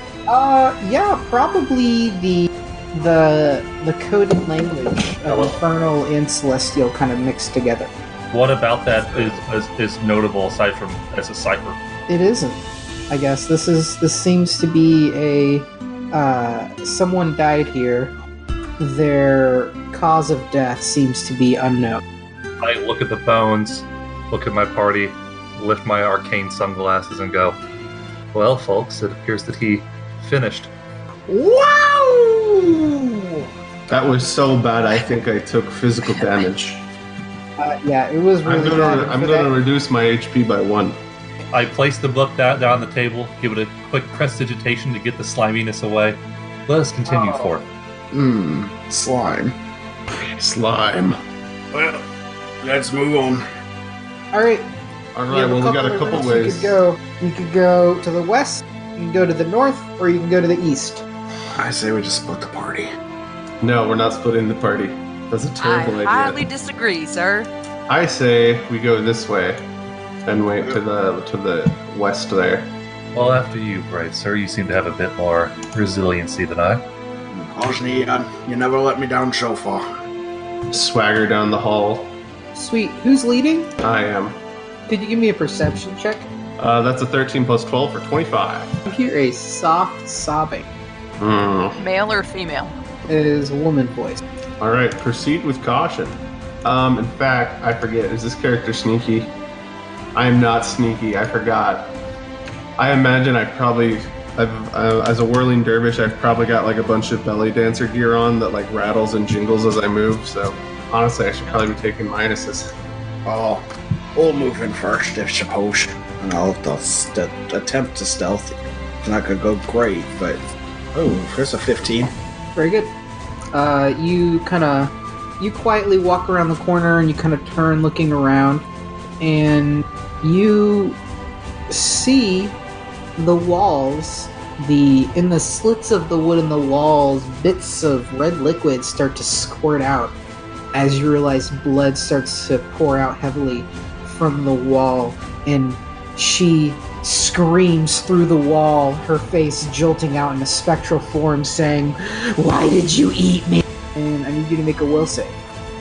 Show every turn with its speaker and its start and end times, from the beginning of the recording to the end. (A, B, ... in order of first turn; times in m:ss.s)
0:00.3-0:07.9 A
0:08.3-0:11.8 B
0:12.1-0:18.2 A
0:18.8-0:22.0 A
0:22.6-0:27.6 B
0:28.3-0:30.7 B
0:31.3-0:34.0 C
0:33.9-0:36.9 D
0:36.2-0:36.5 E
0:37.6-0:39.5 A
0:38.4-0:41.0 D
0:41.5-0:47.7 B
0:47.1-0:47.4 C
0:48.1-0:49.6 C
0:50.2-0:51.2 D
0:51.7-0:52.1 C
0:52.6-0:53.4 C
0:54.3-0:54.7 A
0:55.1-0:56.8 D
0:55.3-1:01.0 A
1:01.6-1:02.9 C
1:03.6-1:06.5 D
1:05.6-1:07.5 E
1:07.9-1:09.6 D
1:10.3-1:12.7 D
1:13.1-1:16.8 B
1:17.3-1:19.9 C
1:20.7-1:22.2 D
1:22.5-1:23.7 A
1:23.8-1:24.4 D
1:24.9-1:26.3 A
1:26.6-1:28.8 D
1:28.8-1:30.7 A
1:31.2-1:31.8 D
1:31.8-1:32.8 E
1:33.1-1:34.2 A
1:34.6-1:39.3 D
1:40.1-1:42.0 D
1:42.8-1:52.7 D
1:51.4-1:51.8 E
1:53.2-2:00.4 C
2:00.9-2:02.1 C
2:02.6-2:02.9 A
2:03.5-2:08.7 A
2:09.2-2:11.0 A
2:11.7-2:12.6 A
2:13.2-2:20.2 A
2:20.7-2:35.4 A